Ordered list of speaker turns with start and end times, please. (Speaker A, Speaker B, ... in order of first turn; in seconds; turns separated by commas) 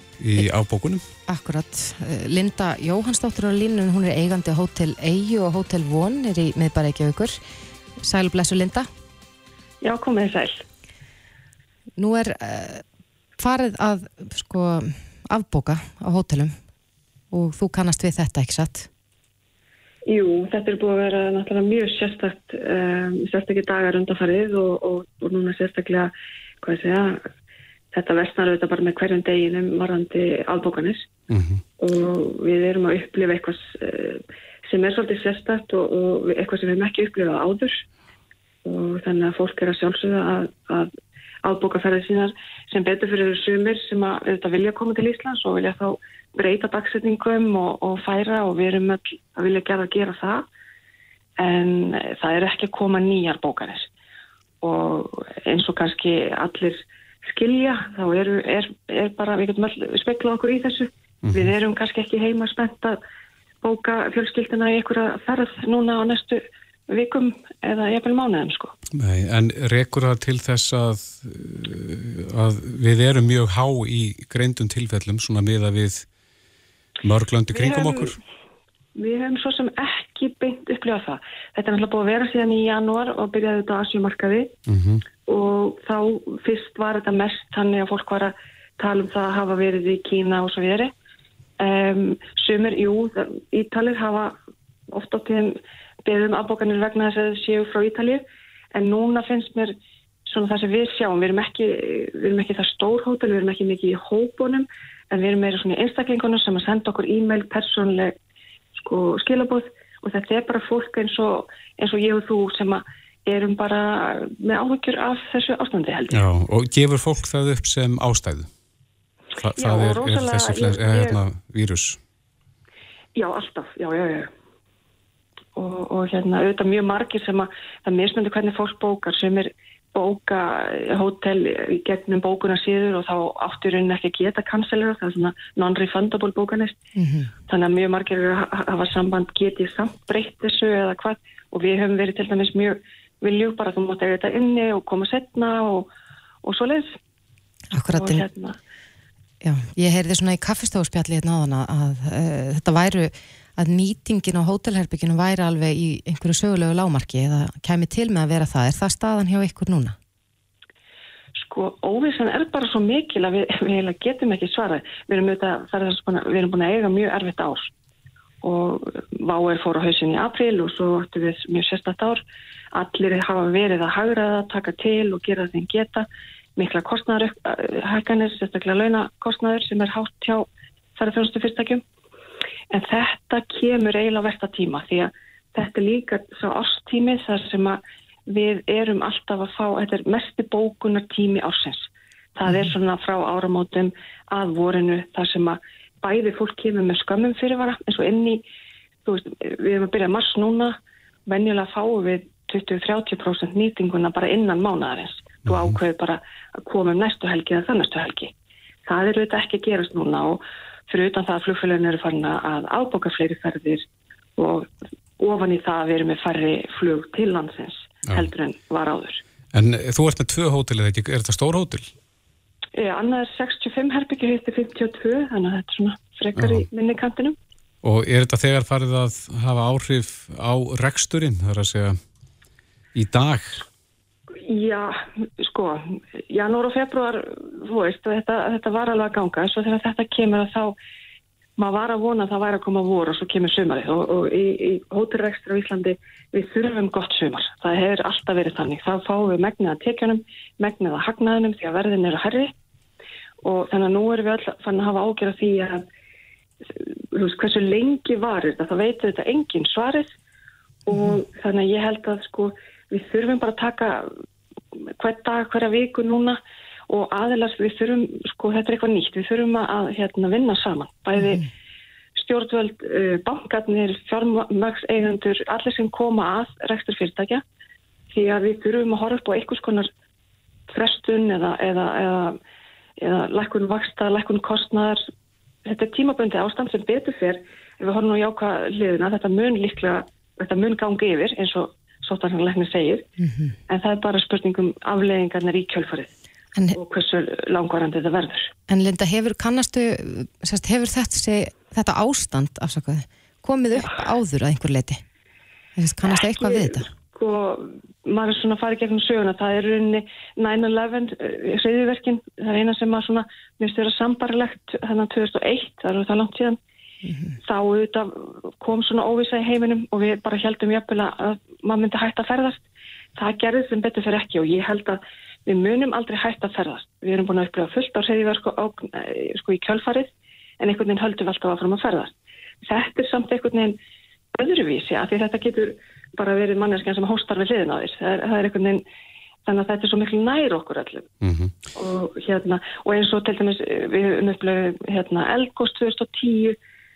Speaker A: 0.2-1.0, Speaker B: 1.2-7.4, Speaker B: 8.0-8.9, Speaker C: 9.8-10.6, Speaker B: 12.0-12.8, Speaker B: 13.4-16.6, Speaker B: 17.3-18.9, Speaker C: 20.1-27.3, Speaker C: 27.9-31.1, Speaker A: 31.3-31.6, Speaker C: 31.8-37.8, Speaker C: 38.6-40.9, Speaker C: 41.4-50.5, Speaker C: 51.4-53.9, Speaker C: 54.6-63.0, Speaker A: 61.2-61.5, Speaker C: 63.6-68.7, Speaker A: 68.9-76.1, Speaker A: 77.0-78.2, Speaker C: 77.5-78.2, Speaker C: 78.9-84.5, Speaker A: 84.7-85.0, Speaker C: 85.2-90.9, Speaker C: 91.6-94.4, Speaker C: 94.9-108.2, Speaker C: 108.7-116.2, Speaker A: 116.1-118.5, Speaker A: 119.4-122.0, Speaker C: 119.6-121.2, Speaker C: 123.1-124.3, Speaker C: 125.5-136.8, Speaker B: 136.9-137.3, Speaker C: 137.5-145.9, Speaker C: 146.4-147.0, Speaker B: 147.7-148.2, Speaker C: 147.9-148.6, Speaker B: 149.4-159.9, Speaker C: 161.3-167.7, Speaker C: 168.4-172.2, Speaker C: 172.7-181.8, Speaker C: 182.7-198.4, Speaker C: 199.0-208.3, Speaker A: 205.4-205.7, Speaker C: 208.8-213.8, Speaker C: 214.4-219.2, Speaker A: 219.5-221.9, Speaker C: 222.7-227.4, Speaker A: 226.4-226.7, Speaker A: 227.8-232.0, Speaker A: 232.9-233.6, Speaker C: 234.4-240.8, Speaker C: 241.6-252.5, Speaker C: 253.4-255.9, Speaker C: 256.7-260.1, Speaker C: 260.9-264.2, Speaker C: 264.7-271.5, Speaker B: 271.2-271.5, Speaker C: 272.1-277.4, Speaker C: 278.1-279.9, Speaker C: 280.7-282.4, Speaker C: 283.0-285.1, Speaker C: 285.6-293.1, Speaker B: 293.2-293.5, Speaker C: 293.7-296.1, Speaker C: 296.7-298.5, Speaker B: 298.7-305.0, Speaker B: 305.8-306.9, Speaker C: 306.1-316.6, Speaker B: 317.0-317.3, Speaker C: 317.4-322.6, Speaker C: 323.1-333.8, Speaker C: 334.3-338.8, Speaker C: 339.4-341.1, Speaker A: 341.2-341.5, Speaker C: 341.7-346.6